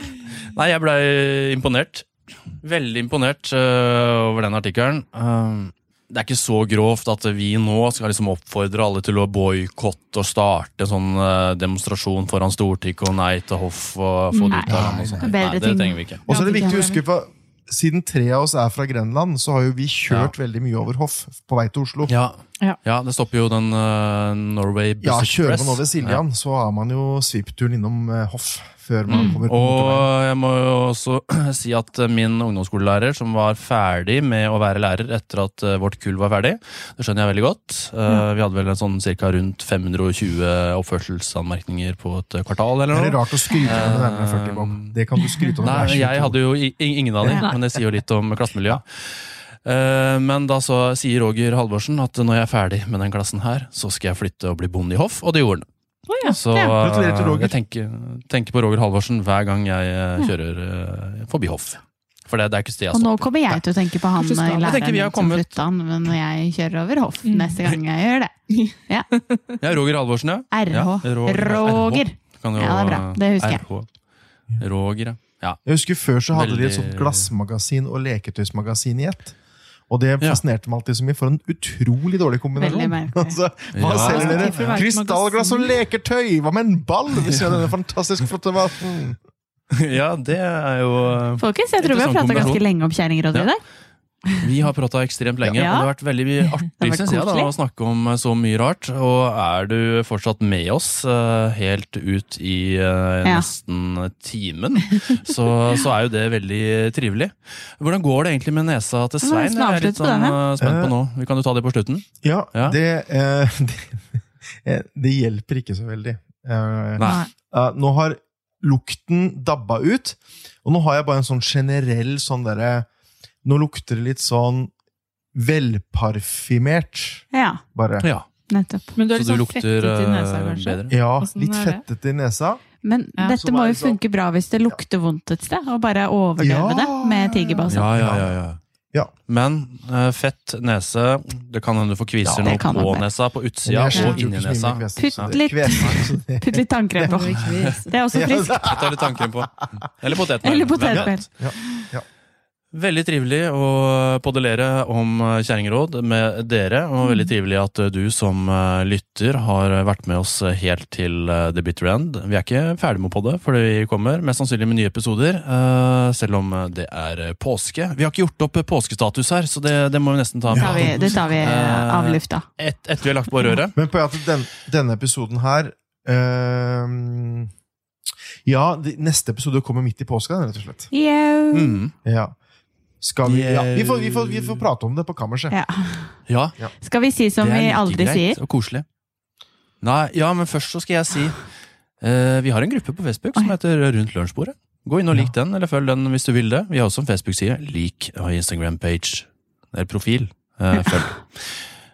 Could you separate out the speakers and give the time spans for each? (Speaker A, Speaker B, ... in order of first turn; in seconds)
Speaker A: 0.3-16.2, 22.1-26.2, 29.1-45.0, 45.6-55.7, 56.2-63.6, 64.6-65.5, 69.6-73.9, 74.6-75.6, 76.3-77.3, 83.7-84.5, 89.8-92.7, 94.4-112.8, 117.0-117.2, 128.0-128.3, 129.1-130.9, 137.7-138.6, 139.3-146.0, 148.6-151.2, 152.7-173.8, 181.5-181.9, 183.2-184.7, 186.3-186.5, 187.4-188.8, 189.8-191.5, 192.0-201.7
Speaker B: 14.3-14.6, 16.3-17.0, 29.1-29.4, 56.1-56.4, 64.2-64.8, 67.2-67.6, 68.5-69.6, 83.8-85.7, 117.0-117.3, 128.9-131.8, 143.9-144.2, 147.1-148.0
Speaker C: 14.4-17.0, 56.3-56.7, 62.9-69.1, 70.5-73.7, 82.6-83.4, 84.1-84.8, 91.4-93.6, 95.6-95.9, 96.8-97.5, 109.2-110.4, 127.3-127.6, 128.5-128.9, 132.8-137.9, 142.4-143.1, 145.0-148.7, 150.4-151.9, 170.6-172.5, 180.9-181.8, 185.5-186.2, 186.8-188.4
Speaker D: 14.7-15.4, 16.3-22.1, 25.0-30.1, 42.9-46.4, 56.8-57.6, 75.7-79.4, 79.9-89.2, 110.6-111.0, 112.2-122.9, 123.4-124.7, 125.3-128.1, 130.9-132.6, 133.3-134.0, 136.4-138.4, 142.2-142.6, 143.7-147.2, 148.1-149.3, 150.9-152.1, 170.5-171.2, 173.8-177.5, 178.4-180.9, 182.1-182.3, 183.0-185.6